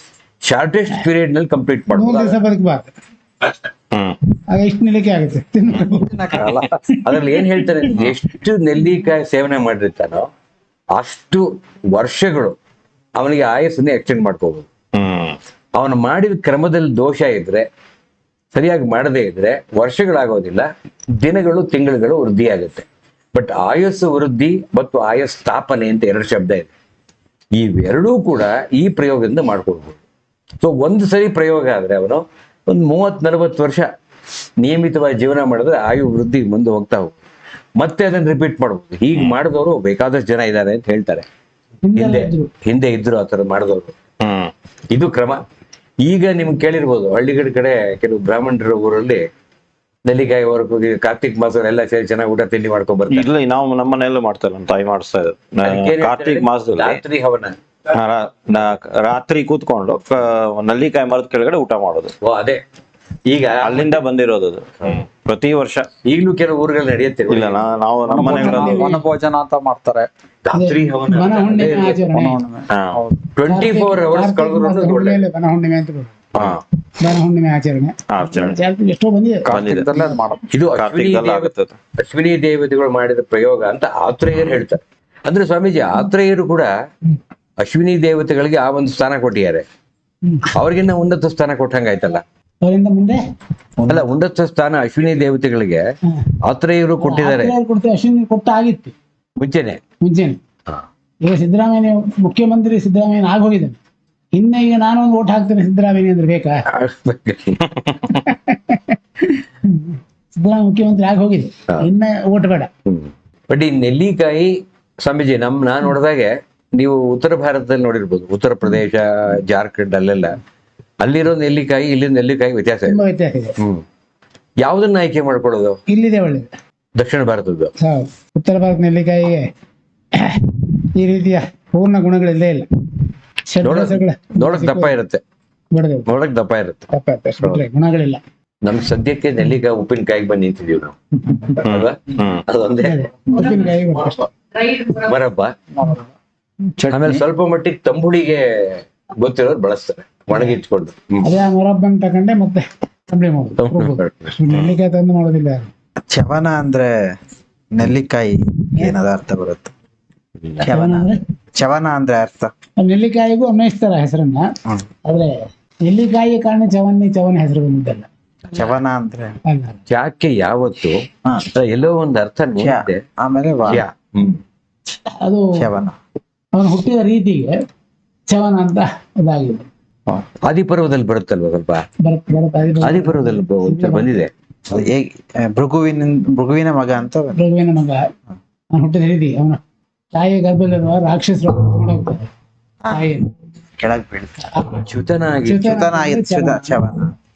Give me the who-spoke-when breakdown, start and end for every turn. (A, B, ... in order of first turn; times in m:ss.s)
0:00.4-0:02.4 A
0:01.9-0:02.9 B
0:04.5-0:06.3 B
0:06.3-0:10.3 A
0:06.4-0:06.6 C
0:07.0-0:07.4 B
0:11.0-0:12.6 A
0:13.2-0:14.7 A
0:14.9-0:15.4 C
0:15.7-0:17.7 A
0:18.5-0:20.7 A
0:21.2-0:26.7 A
0:27.6-0:30.0 A
0:30.6-0:33.9 A
0:34.6-0:37.2 A
0:37.8-0:41.2 A
0:41.8-0:42.5 B
0:42.0-0:43.9 A
0:44.2-0:44.5 C
0:44.9-0:45.4 A
0:46.0-0:49.2 A
0:50.1-0:53.3 A
0:53.1-0:57.0 C
0:55.6-0:57.6 A
0:57.9-1:02.1 C
1:02.2-1:02.6 A
1:03.3-1:04.0 A
1:03.6-1:05.9 C
1:06.0-1:07.6 A
1:07.3-1:08.9 C
1:08.1-1:10.1 D
1:08.2-1:09.0 B
1:10.4-1:12.0 A
1:10.5-1:12.4 B
1:12.0-1:13.2 D
1:12.7-1:13.0 C
1:13.4-1:15.2 A
1:13.5-1:16.2 B
1:16.4-1:16.6 C
1:17.0-1:19.5 B
1:18.1-1:18.6 C
1:19.5-1:20.5 D
1:19.5-1:19.9 C
1:20.5-1:26.7 A
1:20.8-1:21.8 C
1:27.6-1:29.6 A
1:30.5-1:32.2 A
1:32.6-1:33.2 B
1:33.8-1:34.1 E
1:33.9-1:35.8 A
1:36.4-1:37.6 A
1:37.0-1:38.9 B
1:39.4-1:39.8 A
1:40.0-1:40.4 B
1:41.2-1:43.8 B
1:44.4-1:46.6 B
1:46.7-1:48.0 A
1:48.2-1:52.7 B
1:52.9-2:00.4 A
2:01.0-2:03.0 A
2:02.9-2:03.6 B
2:04.6-2:05.8 A
2:05.9-2:06.5 B
2:07.0-2:07.7 A
2:07.8-2:09.4 B
2:10.2-2:12.7 B
2:13.5-2:15.0 B
2:13.6-2:15.2 A
2:15.7-2:16.1 B
2:16.1-2:16.9 A
2:16.9-2:18.2 B
2:18.6-2:21.0 A
2:21.6-2:23.0 A
2:21.6-2:22.4 C
2:22.8-2:24.3 B
2:24.6-2:25.5 A
2:25.8-2:26.0 D
2:26.8-2:27.2 D
2:26.9-2:31.3 A
2:31.2-2:35.7 B
2:33.6-2:34.4 A
2:36.1-2:37.1 E
2:37.7-2:39.7 E
2:40.4-2:40.7 A
2:40.6-2:42.5 E
2:40.7-2:41.2 B
2:42.8-2:44.5 B
2:45.0-2:45.3 B
2:45.9-2:48.1 B
2:48.5-2:49.4 E
2:49.5-2:49.8 B
2:49.9-2:51.0 A
2:51.6-2:53.0 A
2:52.6-2:53.8 E
2:53.7-2:54.4 A
2:55.1-2:55.5 B
2:55.6-2:56.0 E
2:56.5-2:57.6 B
2:58.3-2:59.7 B
3:00.4-3:01.8 A
3:02.0-3:04.2 B
3:02.8-3:04.3 A
3:04.7-3:07.4 E
3:07.4-3:08.0 B
3:08.8-3:09.6 B
3:10.1-3:12.3 B
3:12.8-3:13.1 E
3:12.9-3:13.3 B
3:13.8-3:14.4 E
3:14.4-3:14.8 B
3:14.8-3:15.7 A
3:15.4-3:16.8 B
3:15.6-3:17.1 E